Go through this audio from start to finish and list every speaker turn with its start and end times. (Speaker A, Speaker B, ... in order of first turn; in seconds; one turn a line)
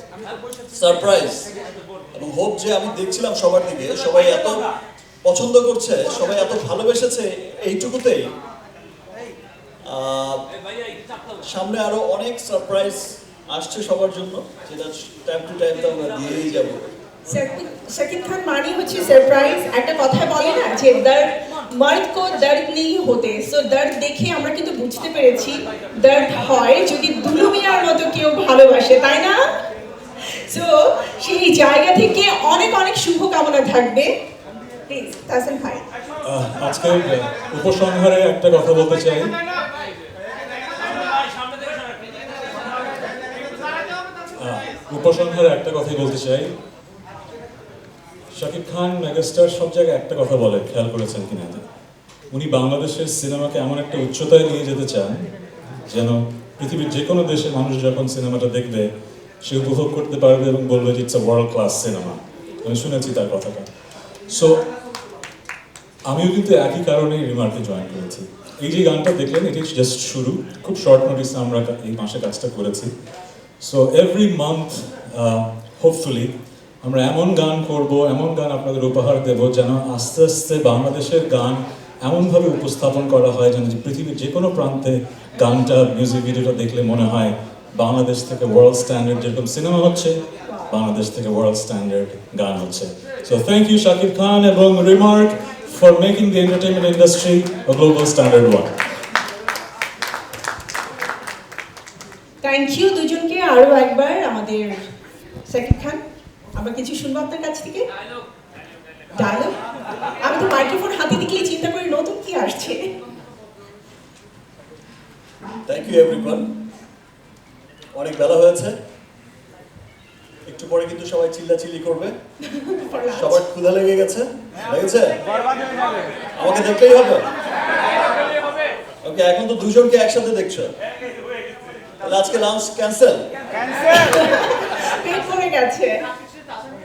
Speaker A: 0.7-1.5
Speaker A: 2.1-4.5
Speaker A: 5.2-8.2
Speaker A: 9.9-10.4
Speaker A: 11.4-16.8
Speaker B: 17.3-29.4
Speaker B: 30.2-34.1
Speaker B: 34.9-35.8
Speaker C: 36.2-39.3
Speaker C: 44.4-46.5
Speaker C: 48.3-51.6
Speaker C: 52.3-55.2
Speaker C: 55.9-58.9
Speaker C: 59.4-63.6
Speaker C: 64.3-64.6
Speaker C: 66.1-72.9
Speaker C: 73.6-76.3
Speaker C: 76.8-90.2
Speaker C: 90.7-98.8
Speaker B: 102.4-104.8
Speaker B: 105.5-106.0
Speaker B: 106.5-107.8
Speaker B: 109.1-109.5
Speaker B: 110.2-112.8
Speaker A: 115.7-116.5
Speaker A: 117.9-118.7
Speaker A: 120.5-122.1
Speaker B: 122.5-123.4
Speaker A: 123.1-125.2
Speaker A: 126.4-127.2
Speaker A: 129.0-130.7
Speaker A: 132.0-133.2
Speaker B: 133.9-135.9